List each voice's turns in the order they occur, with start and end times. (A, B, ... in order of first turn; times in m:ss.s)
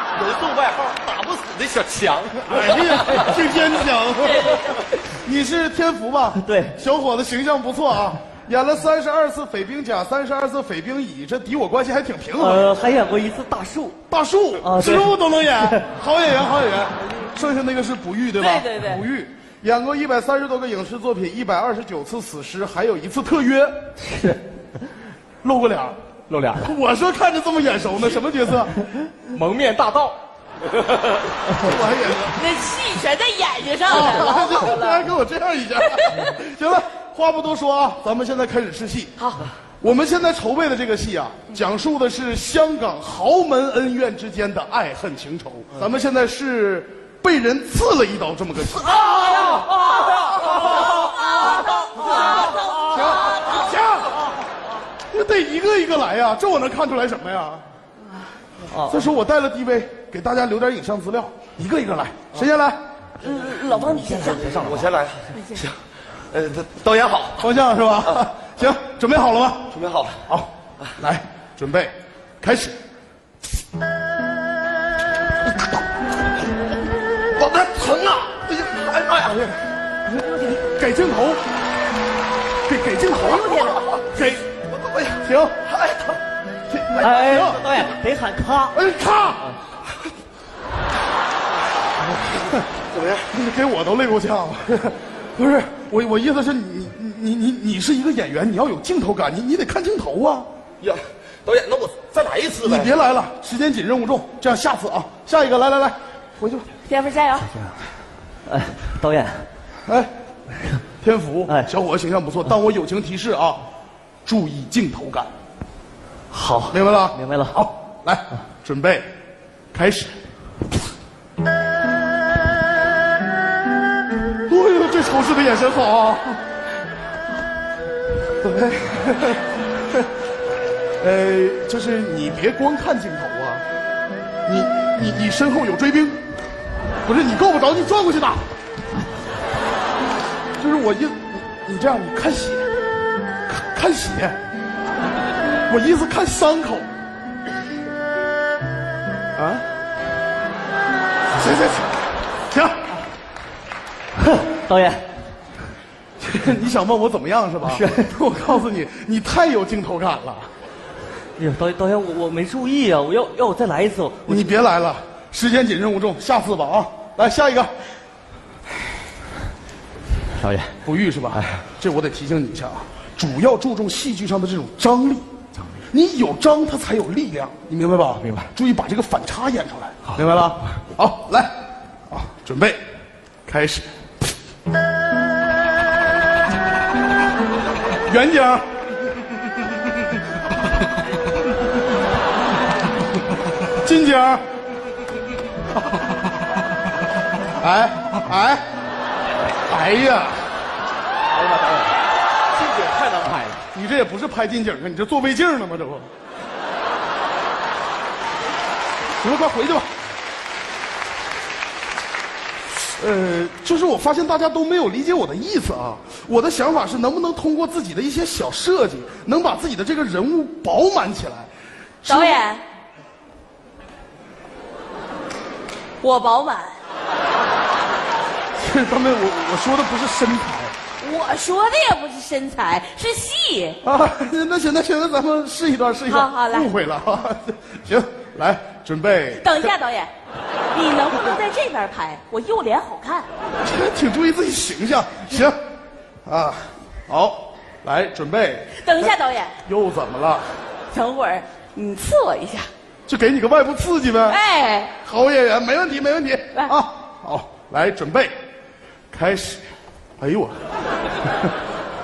0:00.1-0:03.4 A
0:02.5-0:12.7 B
0:04.2-0:04.8 C
0:06.4-0:06.8 D
0:12.4-0:14.0 D
0:14.1-0:23.9 B
0:14.6-0:15.9 D
0:18.4-0:19.0 C
0:24.0-0:24.4 D
0:25.4-0:26.0 B
0:26.3-0:26.7 E
0:26.6-0:28.8 B
0:29.2-0:30.2 E
0:31.6-0:32.4 B
0:32.3-0:35.1 C
0:33.8-0:39.1 B
0:35.8-0:36.3 C
0:39.2-0:39.5 C
0:39.8-0:49.1 B
0:49.3-0:49.6 E
0:50.4-0:50.9 E
0:51.0-0:53.6 C
0:51.8-0:54.2 B
0:55.1-0:57.6 B
0:58.7-0:59.0 D
0:58.9-1:02.8 B
1:03.2-1:04.6 C
1:04.3-1:05.8 A
1:05.3-1:05.6 C
1:06.3-1:07.4 A
1:07.4-1:09.7 B
1:09.7-1:10.3 A
1:10.3-1:12.8 B
1:17.4-1:19.4 A
1:19.3-1:19.6 B
1:20.1-1:20.6 C
1:20.6-1:21.4 B
1:22.7-1:24.5 B
1:23.2-1:23.8 C
1:23.6-1:26.2 A
1:25.2-1:25.6 B
1:26.7-1:27.7 B
1:27.0-1:28.7 D
1:28.7-1:29.6 B
1:32.9-1:33.3 A
1:33.3-1:40.5 B
1:40.8-1:42.9 A
1:42.6-1:46.7 B
1:46.8-1:47.5 C
1:48.5-1:49.5 D
1:49.9-1:50.1 B
1:51.0-1:53.6 B
1:51.5-1:51.7 D
1:54.2-1:55.3 B
1:56.3-1:57.6 D
1:56.7-1:59.1 B
1:59.7-2:00.1 B
2:04.5-2:06.4 B
2:08.4-2:09.4 B
2:11.0-2:13.6 B
2:14.5-2:16.2 B
2:17.0-2:18.4 B
2:20.6-2:22.7 B
2:23.5-2:24.4 B
2:25.7-2:26.9 B
2:29.4-2:29.7 B
2:31.4-2:32.9 B
2:34.3-2:35.0 D
2:36.2-2:40.5 B
2:37.7-2:38.1 D
2:41.4-2:44.5 D
2:44.3-2:47.7 B
2:50.4-2:50.7 E
2:50.8-2:55.3 B
2:55.9-3:01.6 B
2:58.2-2:58.5 E
3:02.1-3:02.8 B
3:03.5-3:03.9 B
3:08.1-3:08.7 B
3:13.8-3:14.4 B
3:17.6-3:18.6 B
3:19.7-3:20.5 B
3:21.3-3:22.0 E
3:22.5-3:23.6 E
3:23.7-3:26.1 B
3:29.2-3:29.9 B
3:33.0-3:41.5 B
3:42.0-3:42.4 B
3:42.1-3:42.6 C
3:46.0-3:46.8 C
3:48.6-3:50.7 B
3:51.0-3:53.8 C
3:53.8-3:59.7 B
3:56.1-3:56.7 C
3:59.4-4:00.1 C
4:00.7-4:03.3 C
4:03.6-4:05.6 B
4:06.3-4:10.5 B
4:08.8-4:09.6 C
4:10.9-4:12.7 C
4:13.1-4:14.4 B
4:14.3-4:14.9 C
4:15.0-4:18.3 B
4:19.1-4:19.6 B
4:20.2-4:20.6 B
4:21.2-4:21.5 B